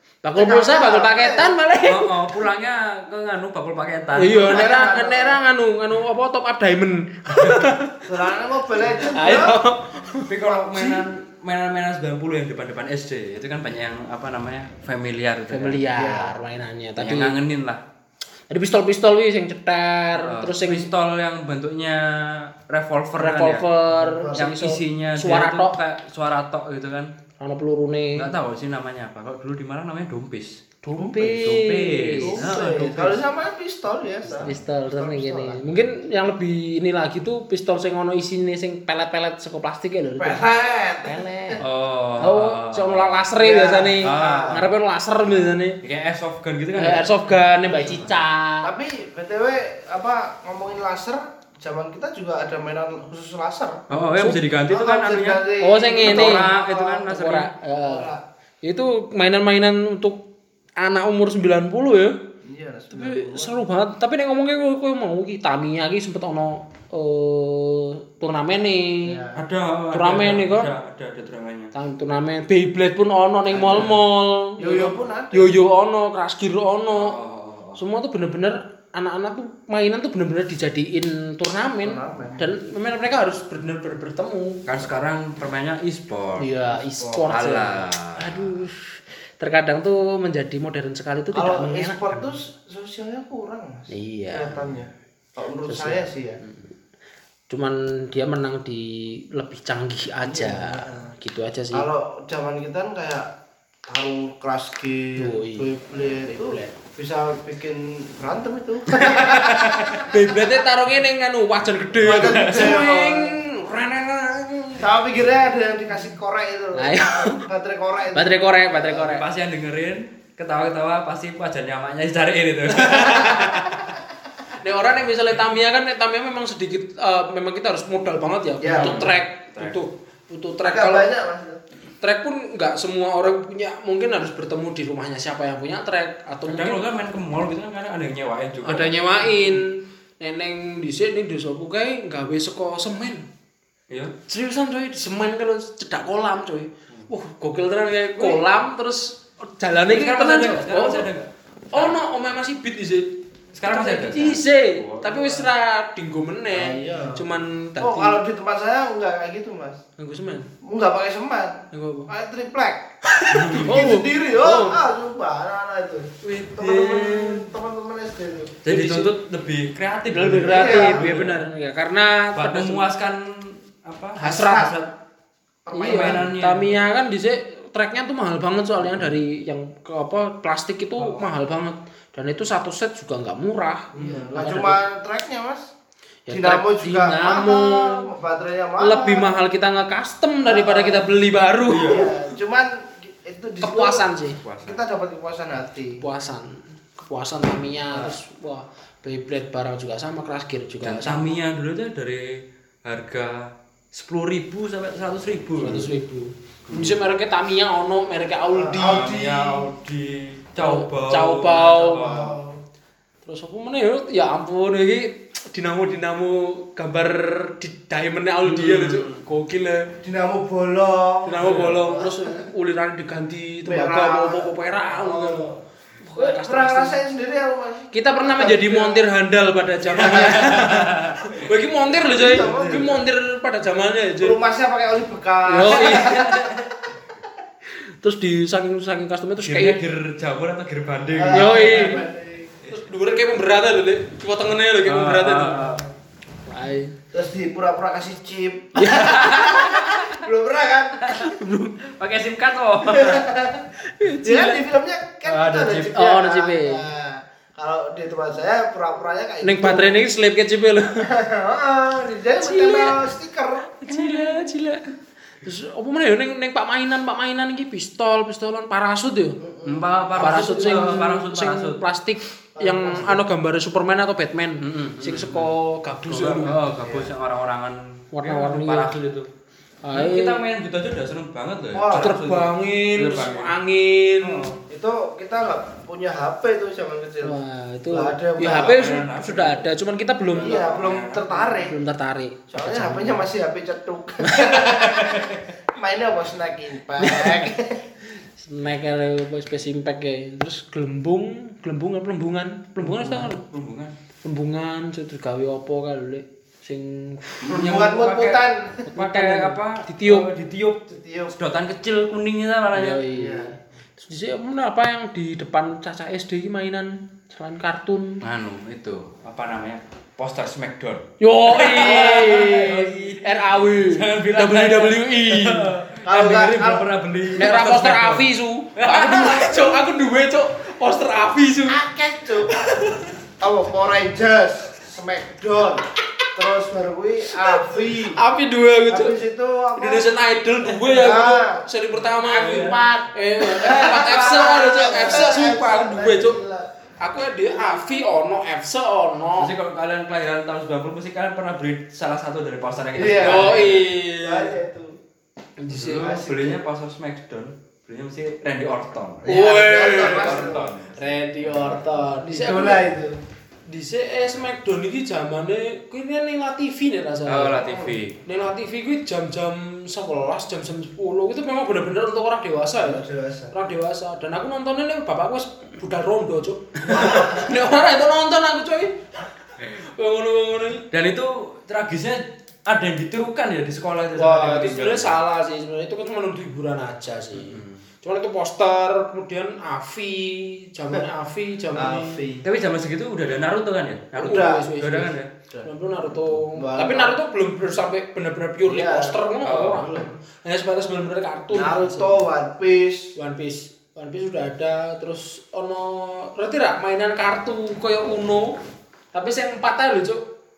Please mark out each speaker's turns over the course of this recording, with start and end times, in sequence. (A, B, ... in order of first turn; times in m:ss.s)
0:00.2-0:02.1 A
0:00.4-0:01.6 B
0:01.9-0:04.6 C
0:04.2-0:08.1 A
0:04.3-0:05.4 B
0:07.4-0:07.7 C
0:08.1-0:09.6 B
0:09.1-0:10.3 A
0:10.3-0:15.8 C
0:10.5-0:11.0 B
0:15.5-0:17.4 A
0:15.9-0:16.4 B
0:17.0-0:17.8 C
0:18.5-0:20.9 A
0:20.2-0:23.6 C
0:23.2-0:25.8 A
0:23.9-0:24.4 B
0:24.4-0:27.1 C
0:27.4-0:28.3 A
0:28.2-0:30.6 C
0:30.8-0:33.2 A
0:31.2-0:33.1 C
0:32.2-0:35.6 B
0:34.4-0:40.5 A
0:40.2-0:41.6 B
0:41.0-0:41.6 A
0:41.6-0:43.3 C
0:42.2-0:45.8 A
0:43.4-0:44.6 B
0:44.0-0:44.7 C
0:45.8-0:48.1 C
0:46.8-0:48.7 A
0:48.6-0:53.8 B
0:53.9-0:55.4 C
0:53.9-0:54.4 A
0:54.7-0:57.2 B
0:55.6-0:56.5 A
0:56.0-0:57.5 C
0:57.1-0:58.1 A
0:57.7-0:58.2 B
0:58.6-1:00.2 A
1:00.8-1:02.2 A
1:02.4-1:03.6 B
1:02.9-1:09.2 A
1:09.0-1:09.4 B
1:09.4-1:11.7 C
1:09.9-1:10.7 A
1:11.7-1:17.2 A
1:13.5-1:13.9 B
1:13.7-1:13.9 C
1:14.6-1:15.5 B
1:16.9-1:17.8 C
1:17.8-1:24.7 A
1:21.8-1:22.5 B
1:24.7-1:28.4 C
1:26.4-1:32.3 A
1:27.0-1:27.3 B
1:31.3-1:36.4 B
1:33.9-1:34.7 A
1:35.7-1:36.6 A
1:37.5-1:41.9 A
1:40.2-1:41.1 B
1:41.7-1:43.3 B
1:43.9-1:50.3 B
1:45.2-1:46.8 A
1:48.9-1:49.4 A
1:49.2-1:50.0 C
1:50.0-1:54.8 A
1:52.0-1:53.4 B
1:52.0-1:52.8 C
1:54.8-1:59.1 B
1:56.8-1:57.4 A
1:58.2-1:59.2 A
1:58.9-2:03.8 C
2:02.7-2:03.8 A
2:04.6-2:11.1 A
2:08.6-2:09.1 B
2:08.7-2:09.8 C
2:10.7-2:11.6 B
2:12.0-2:16.9 A
2:16.5-2:19.6 C
2:18.6-2:23.3 A
2:24.3-2:31.1 A
2:28.2-2:28.4 C
2:29.8-2:32.0 C
2:31.7-2:38.2 A
2:33.5-2:35.5 C
2:36.5-2:37.3 B
2:37.8-2:39.8 B
2:40.0-2:40.5 A
2:40.6-2:42.9 B
2:41.7-2:42.1 A
2:43.1-2:44.8 A
2:43.3-2:43.9 C
2:43.6-2:48.6 B
2:46.3-2:47.2 A
2:46.6-2:47.3 C
2:48.6-2:51.4 C
2:48.7-2:49.1 A
2:50.1-2:52.8 A
2:50.5-2:51.2 B
2:52.4-2:54.9 C
2:54.2-2:54.7 A
2:54.2-2:54.8 B
2:55.6-2:56.3 B
2:55.7-3:04.8 A
2:55.8-2:56.8 C
3:01.0-3:01.3 C
3:04.0-3:04.4 C
3:04.0-3:05.7 B
3:06.3-3:08.1 A
3:06.3-3:09.4 B
3:08.8-3:12.1 A
3:10.4-3:11.1 B
3:11.7-3:12.1 C
3:11.8-3:14.0 B
3:13.6-3:14.4 A
3:14.4-3:14.8 C
3:14.6-3:16.0 B
3:16.0-3:21.3 A
3:17.9-3:18.2 B
3:20.8-3:25.9 C
3:25.6-3:29.1 A
3:26.7-3:27.0 C
3:28.5-3:29.7 B
3:28.8-3:32.4 C
3:30.6-3:32.2 A
3:31.9-3:32.6 B
3:33.2-3:39.9 A
3:38.4-3:39.2 C
3:40.0-3:42.4 B
3:41.2-3:47.0 A
3:41.4-3:41.8 C
3:43.7-3:45.6 B
3:46.2-3:49.1 B
3:47.9-3:54.4 A
3:49.9-3:50.6 B
3:50.0-3:51.3 C
3:51.9-3:53.0 B
3:54.2-3:56.7 B
3:55.4-3:56.3 A
3:55.8-3:56.6 C
3:57.8-3:59.8 A
3:59.4-4:02.0 C
4:01.1-4:02.5 B
4:01.3-4:02.0 A
4:02.7-4:05.8 A
4:04.8-4:05.8 C
4:06.5-4:07.0 A
4:07.1-4:11.1 B
4:08.8-4:09.9 A
4:08.9-4:10.1 C
4:11.0-4:13.3 C
4:11.1-4:11.8 A
4:12.8-4:13.7 B
4:13.8-4:14.6 A
4:14.2-4:20.1 B
4:15.2-4:16.0 C
4:15.9-4:16.9 A
4:19.4-4:21.1 A
4:21.0-4:23.8 B
4:22.4-4:23.0 A
4:23.8-4:29.4 A
4:24.0-4:24.4 C
4:29.4-4:31.0 B
4:29.6-4:31.8 C
4:30.2-4:36.6 A
4:32.6-4:33.2 B
4:34.6-4:35.5 C
4:36.1-4:39.3 C
4:36.3-4:37.1 B
4:38.1-4:39.0 A
4:39.8-4:40.4 A
4:39.9-4:43.6 C
4:41.7-4:42.2 B
4:41.9-4:44.6 A
4:44.2-4:44.6 C
4:44.7-4:47.4 B
4:47.2-4:50.6 A
4:47.9-4:49.0 B
4:48.4-4:49.7 C
4:50.3-4:51.4 C
4:50.4-4:51.8 B
4:51.5-4:53.3 A
4:52.5-4:57.9 B
4:54.2-4:55.1 A
4:54.8-4:55.4 C
4:57.0-4:57.5 A
4:58.4-5:03.4 A
5:02.8-5:03.9 C
5:04.2-5:07.7 A
5:07.5-5:08.8 B
5:07.5-5:13.0 C
5:08.9-5:10.3 A
5:10.9-5:11.4 B
5:12.8-5:18.2 A
5:13.1-5:13.5 B
5:18.2-5:29.8 C
5:21.2-5:25.7 A
5:26.0-5:26.9 B
5:27.4-5:31.8 A
5:31.7-5:32.5 B
5:32.5-5:33.1 A
5:33.4-5:38.2 B
5:37.4-5:39.2 A
5:38.9-5:40.2 B
5:39.8-5:46.4 A
5:40.8-5:41.6 B
5:42.3-5:42.8 C
5:43.5-5:46.7 B
5:43.7-5:45.3 C
5:47.0-5:49.5 A
5:49.4-5:53.9 C
5:52.9-5:55.0 B
5:53.2-5:54.6 A
5:55.6-5:56.1 A
5:55.7-6:02.0 C
5:56.0-5:56.6 B
5:59.2-6:00.7 B
5:59.3-6:02.8 A
6:02.2-6:03.2 B
6:03.7-6:07.6 A
6:07.3-6:08.2 C
6:07.6-6:08.0 B
6:08.2-6:19.0 A
6:12.8-6:13.5 B
6:16.9-6:17.5 B
6:19.6-6:20.9 A
6:20.9-6:25.2 C
6:24.2-6:32.2 A
6:27.3-6:27.8 C
6:31.7-6:32.5 B
6:32.4-6:35.3 C
6:34.2-6:34.7 B
6:34.2-6:42.2 A
6:36.5-6:37.2 B
6:38.6-6:40.1 B
6:39.4-6:39.9 C
6:41.5-6:43.1 B
6:43.2-6:48.6 A
6:49.1-6:50.2 A